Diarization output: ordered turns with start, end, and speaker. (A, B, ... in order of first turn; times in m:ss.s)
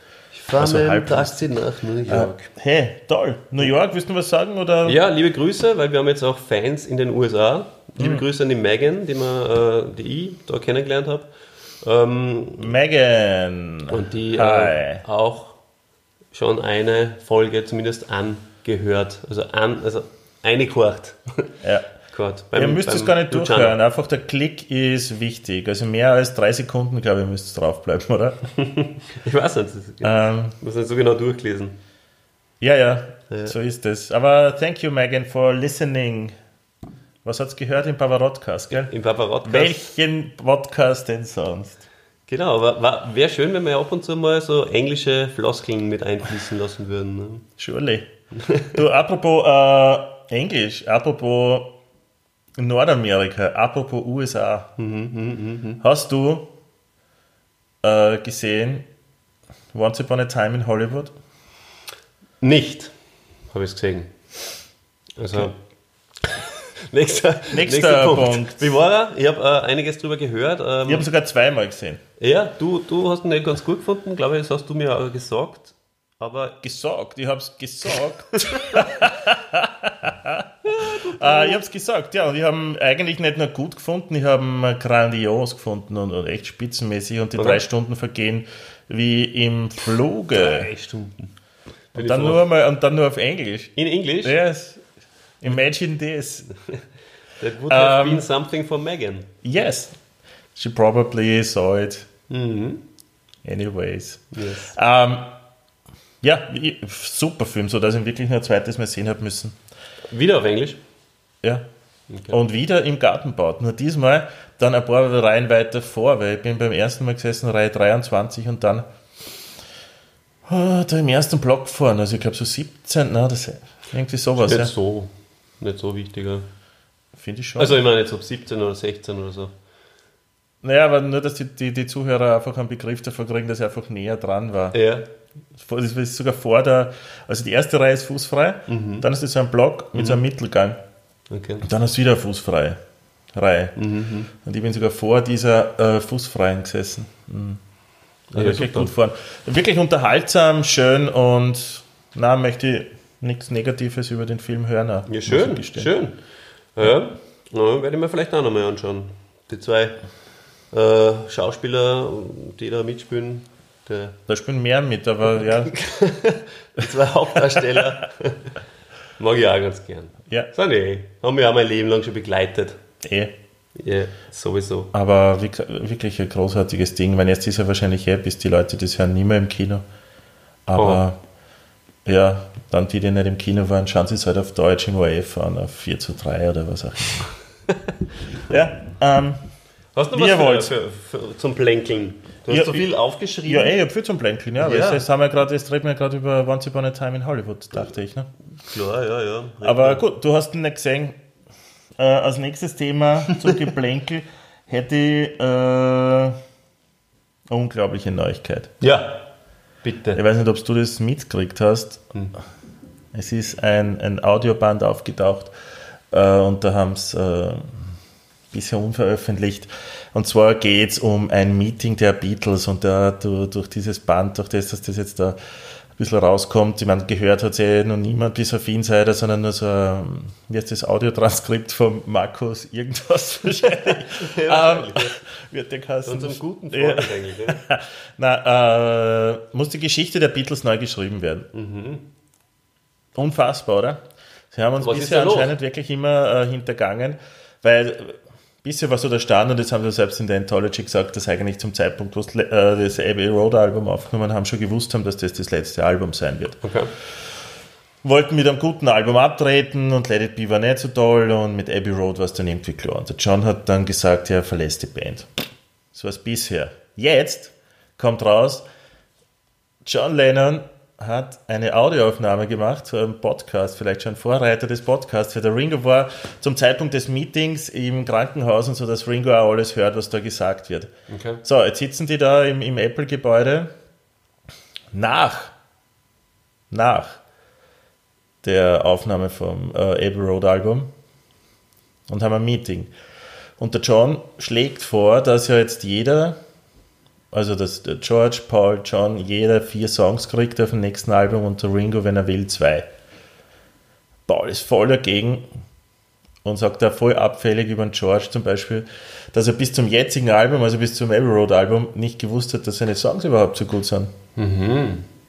0:00.3-0:02.4 A
0:00.6-0:01.5 B
0:02.1-0:05.0 B
0:04.8-0:11.3 A
0:08.0-0:08.2 B
0:11.8-0:12.7 A
0:12.6-0:15.0 B
0:13.9-0:15.6 A
0:16.3-0:21.5 A
0:21.6-0:21.9 B
0:22.1-0:23.7 A
0:22.5-0:28.4 B
0:28.6-0:31.8 A
0:30.0-0:30.6 B
0:32.6-0:36.4 B
0:37.2-0:38.9 B
0:38.7-0:39.8 A
0:39.4-0:41.8 B
0:42.3-0:47.4 A
0:47.6-0:48.1 B
0:48.4-0:48.7 A
0:48.7-0:51.8 B
0:52.6-0:54.7 B
0:54.8-0:55.8 A
0:55.8-0:56.5 B
0:57.8-0:58.9 B
0:59.7-1:01.1 B
1:02.4-1:02.9 A
1:03.5-1:04.2 A
1:05.2-1:05.5 A
1:06.2-1:11.0 A
1:07.5-1:08.7 B
1:10.9-1:12.0 B
1:12.2-1:16.6 A
1:16.6-1:20.4 B
1:18.5-1:18.8 A
1:20.6-1:21.6 A
1:21.1-1:30.7 B
1:27.4-1:27.6 A
1:30.3-1:31.3 A
1:31.9-1:32.4 A
1:31.9-1:34.8 B
1:33.8-1:34.3 A
1:35.4-1:36.5 B
1:37.4-1:39.3 A
1:37.7-1:38.2 B
1:39.4-1:40.0 B
1:40.5-1:42.1 B
1:42.3-1:42.8 A
1:43.4-1:45.4 B
1:44.3-1:44.7 A
1:46.2-1:49.6 B
1:50.1-1:50.8 A
1:52.1-1:52.4 A
1:52.3-1:58.9 B
2:00.4-2:04.7 B
2:04.4-2:06.5 A
2:07.2-2:07.8 B
2:07.6-2:09.5 A
2:10.6-2:14.8 B
2:14.7-2:15.0 A
2:15.6-2:20.8 B
2:18.7-2:19.1 A
2:19.9-2:20.2 A
2:21.3-2:21.6 A
2:21.6-2:22.8 B
2:23.3-2:23.8 B
2:23.8-2:24.3 A
2:24.3-2:27.6 B
2:28.3-2:28.9 A
2:28.3-2:35.9 B
2:35.1-2:36.2 A
2:36.7-2:40.0 A
2:40.7-2:44.2 A
2:44.3-2:45.8 B
2:45.7-2:48.5 A
2:47.3-2:48.0 B
2:49.2-2:52.8 A
2:53.0-2:53.3 B
2:53.8-2:54.9 A
2:54.9-2:59.8 B
3:00.6-3:01.2 B
3:00.8-3:01.0 A
3:02.0-3:07.3 B
3:08.5-3:09.5 B
3:09.9-3:13.7 A
3:10.1-3:10.7 B
3:12.5-3:12.9 B
3:13.4-3:18.3 B
3:14.6-3:15.0 A
3:18.6-3:20.0 A
3:19.6-3:21.2 B
3:22.0-3:26.4 B
3:27.5-3:28.7 B
3:28.8-3:29.2 A
3:29.8-3:30.2 A
3:30.1-3:32.1 B
3:33.1-3:35.5 B
3:36.1-3:37.9 B
3:38.5-3:45.4 B
3:45.9-4:01.5 B
3:53.7-3:55.2 A
3:56.0-3:57.6 A
4:01.5-4:02.1 A
4:03.1-4:16.6 B
4:04.8-4:05.5 A
4:16.6-4:16.9 A
4:18.0-4:25.3 B
4:25.9-4:28.6 B
4:29.8-4:40.9 B
4:41.1-4:41.4 A
4:41.4-4:43.7 B
4:44.9-4:45.5 B
4:46.7-4:47.2 B
4:48.4-4:50.9 B
4:52.1-4:52.9 B
4:53.6-4:56.4 B
4:57.3-5:02.9 B
5:04.3-5:05.5 B
5:06.4-5:14.1 B
5:14.4-5:15.0 A